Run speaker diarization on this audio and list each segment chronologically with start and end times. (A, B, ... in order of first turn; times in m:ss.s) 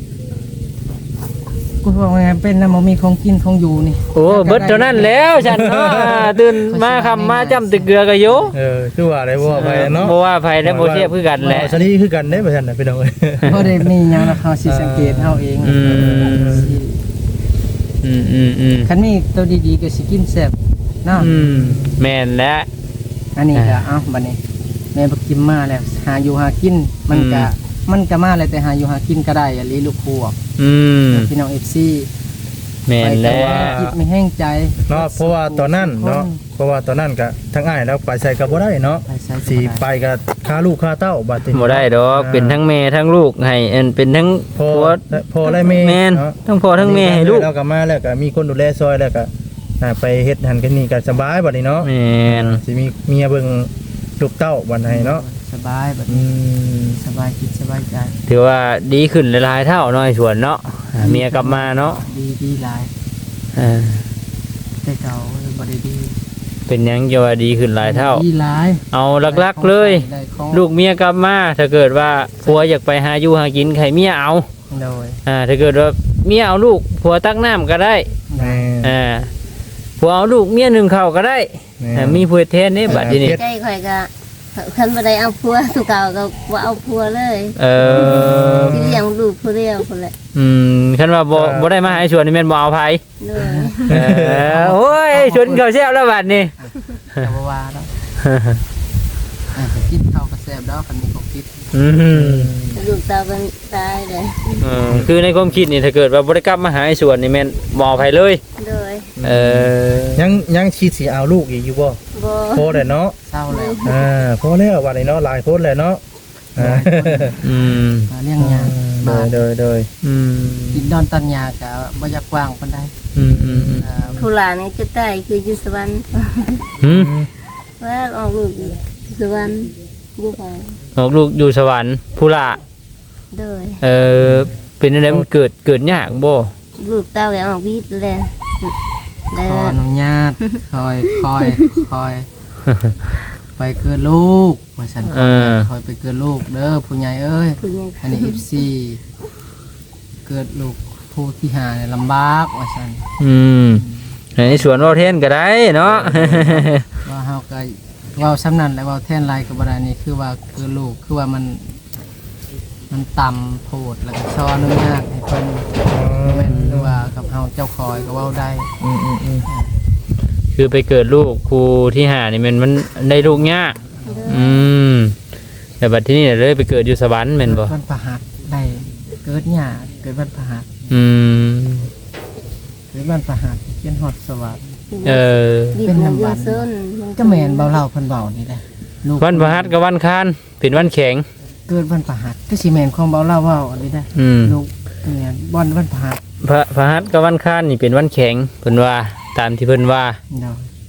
0:01.8-0:05.8 A
0:04.1-0:08.5 B
0:05.5-0:06.3 C
0:06.6-0:08.5 A
0:08.5-0:15.5 C
0:09.5-0:11.8 B
0:13.4-0:17.0 A
0:15.6-0:16.8 B
0:16.2-0:16.7 C
0:18.0-0:18.9 B
0:18.8-0:21.3 A
0:21.2-0:22.7 B
0:21.2-0:22.1 C
0:23.4-0:24.4 A
0:23.6-0:23.8 B
0:24.9-0:30.4 A
0:27.1-0:27.5 B
0:30.6-0:31.3 B
0:31.1-0:32.1 A
0:32.9-0:33.8 B
0:33.0-0:36.4 A
0:33.2-0:34.0 C
0:34.9-0:42.6 C
0:39.1-0:39.8 A
0:41.5-0:45.0 B
0:44.6-0:55.2 C
0:45.5-0:47.5 B
0:51.8-0:52.6 B
0:54.9-0:56.3 A
0:56.1-0:57.0 C
0:57.0-0:58.2 A
0:58.3-1:02.0 B
1:01.0-1:02.9 A
1:03.6-1:04.1 B
1:04.8-1:06.2 A
1:06.7-1:08.2 B
1:07.8-1:10.6 A
1:08.9-1:14.5 B
1:14.7-1:15.2 A
1:15.3-1:18.1 B
1:18.3-1:18.6 A
1:18.4-1:19.0 C
1:18.8-1:19.3 B
1:20.0-1:23.4 B
1:21.8-1:22.3 C
1:22.8-1:23.4 C
1:22.9-1:30.1 D
1:27.6-1:29.0 B
1:27.8-1:29.0 C
1:30.4-1:33.0 B
1:31.3-1:31.8 C
1:33.2-1:34.0 D
1:33.4-1:33.8 A
1:33.9-1:36.5 B
1:33.9-1:34.5 C
1:34.3-1:35.7 A
1:36.6-1:37.9 A
1:38.2-1:38.6 B
1:39.6-1:41.6 A
1:41.7-1:42.5 B
1:42.1-1:42.8 C
1:42.7-1:44.6 D
1:44.6-1:48.4 B
1:48.6-1:49.1 D
1:49.2-1:52.0 C
1:49.2-1:50.4 B
1:52.2-1:52.9 D
1:52.5-1:53.2 C
1:53.3-1:54.0 A
1:53.5-1:54.0 D
1:53.8-1:56.0 C
1:56.6-1:57.4 C
1:56.6-1:57.5 A
1:57.4-1:58.1 B
1:58.1-1:59.4 A
1:58.4-1:59.9 C
2:00.0-2:00.9 B
2:00.7-2:02.9 A
2:03.2-2:03.9 B
2:03.3-2:04.2 C
2:03.8-2:04.2 A
2:04.2-2:06.7 D
2:06.8-2:07.1 B
2:06.9-2:07.3 C
2:07.8-2:10.8 D
2:11.0-2:12.6 B
2:13.3-2:13.8 D
2:13.8-2:16.5 B
2:14.2-2:14.5 C
2:16.8-2:18.8 D
2:19.3-2:19.8 D
2:19.3-2:22.3 A
2:21.4-2:21.8 D
2:23.6-2:29.0 A
2:25.1-2:25.7 B
2:27.6-2:28.4 D
2:30.3-2:33.0 A
2:33.2-2:33.8 B
2:33.8-2:35.2 A
2:34.4-2:36.8 B
2:35.8-2:36.6 C
2:37.0-2:41.8 A
2:42.9-2:48.7 A
2:45.9-2:47.0 C
2:46.5-2:46.8 B
2:48.8-2:49.5 C
2:49.5-2:49.7 A
2:50.6-2:53.8 B
2:53.2-2:54.5 A
2:54.1-2:54.7 D
2:54.3-2:55.2 B
2:55.8-2:57.7 B
2:57.4-3:00.7 A
3:00.9-3:01.9 B
3:02.9-3:04.8 A
3:04.9-3:07.8 D
3:05.0-3:05.8 B
3:05.8-3:09.8 A
3:09.2-3:11.2 B
3:11.7-3:16.2 A
3:14.2-3:14.6 B
3:16.4-3:20.2 B
3:20.3-3:20.7 A